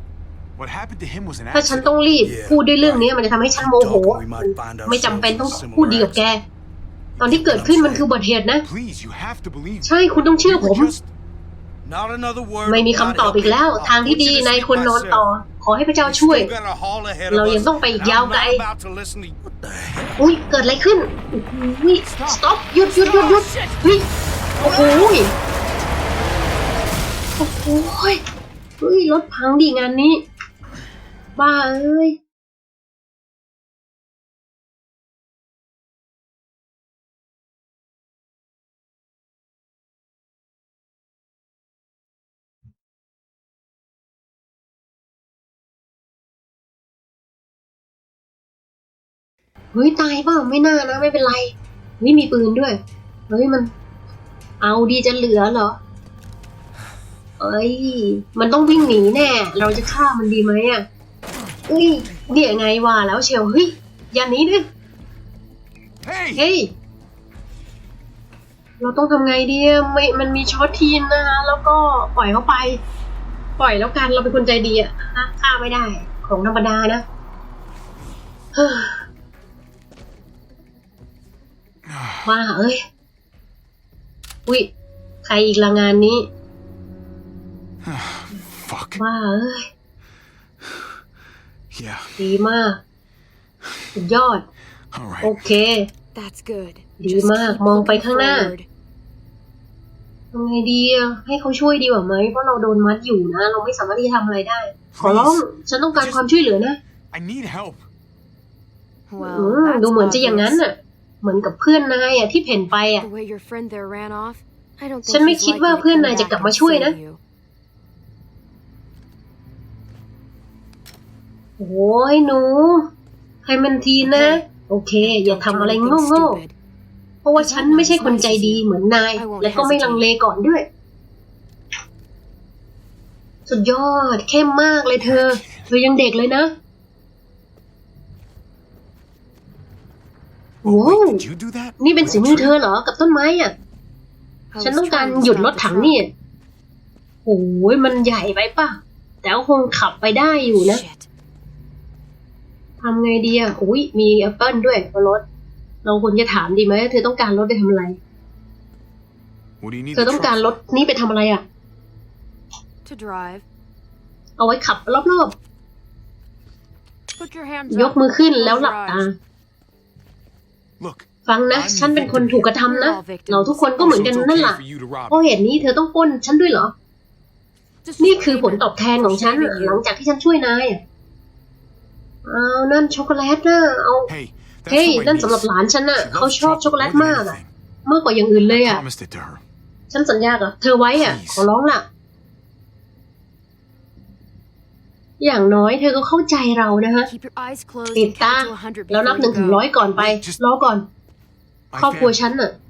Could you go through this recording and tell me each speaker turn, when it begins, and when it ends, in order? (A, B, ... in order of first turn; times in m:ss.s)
0:00.6-0:01.9 A
0:01.5-0:06.4 B
0:02.2-0:06.2 C
0:07.2-0:08.1 C
0:07.2-0:08.7 B
0:08.6-0:11.1 A
0:09.8-0:11.0 B
0:11.8-0:15.3 C
0:12.6-0:16.5 B
0:16.0-0:20.1 C
0:17.3-0:18.6 B
0:20.2-0:24.1 B
0:22.0-0:23.8 A
0:24.6-0:25.3 B
0:27.4-0:28.2 B
0:28.8-0:30.2 B
0:31.4-0:32.2 B
0:49.7-0:53.7 B
0:54.6-0:55.8 B
0:57.4-1:00.8 B
1:01.7-1:04.6 B
1:06.0-1:06.4 A
1:06.4-1:06.7 B
1:08.8-1:12.8 B
1:13.6-1:17.0 B
1:18.6-1:19.0 B
1:21.9-1:22.3 A
1:22.3-1:22.8 B
1:25.3-1:26.3 B
1:27.8-1:29.0 A
1:29.0-1:29.7 B
1:31.7-1:32.2 A
1:32.2-1:32.8 B
1:34.0-1:34.5 B
1:34.9-1:35.4 A
1:35.2-1:35.9 B
1:36.1-1:38.7 D
1:37.0-1:38.5 B
1:40.3-1:46.8 B
1:44.9-1:45.4 A
1:46.0-1:46.3 A
1:47.1-1:47.8 A
1:49.1-1:50.6 D
1:49.2-1:53.1 B
1:53.0-1:57.2 D
1:55.1-1:57.0 B
2:01.6-2:02.9 B
2:03.4-2:06.4 B
2:04.1-2:04.4 D
2:05.0-2:06.6 D
2:07.2-2:10.7 B
2:07.4-2:10.1 D
2:13.5-2:16.5 B
2:15.0-2:15.7 A
2:20.6-2:21.2 B
2:20.6-2:22.6 A
2:21.8-2:23.5 B
2:24.5-2:26.0 D
2:24.6-2:26.1 B
2:27.2-2:30.8 B
2:30.4-2:31.1 D
2:32.8-2:35.2 B
2:35.8-2:38.0 B
2:39.6-2:40.6 A
2:40.0-2:41.4 B
2:42.8-2:43.4 D
2:44.4-2:45.4 B
2:47.2-2:49.1 D
2:47.7-2:49.1 B
2:50.8-2:52.5 A
2:51.3-2:56.7 B
2:52.6-2:53.9 D
2:53.8-2:55.3 A
2:57.8-2:59.8 D
2:58.0-3:00.8 B
3:02.3-3:04.1 B
3:04.1-3:07.5 A
3:04.7-3:08.8 B
3:08.5-3:09.4 A
3:09.9-3:11.8 B
3:11.0-3:11.5 A
3:15.2-3:17.1 B
3:17.0-3:19.7 D
3:17.9-3:20.9 B
3:20.0-3:20.4 A
3:21.7-3:22.2 A
3:21.8-3:22.6 B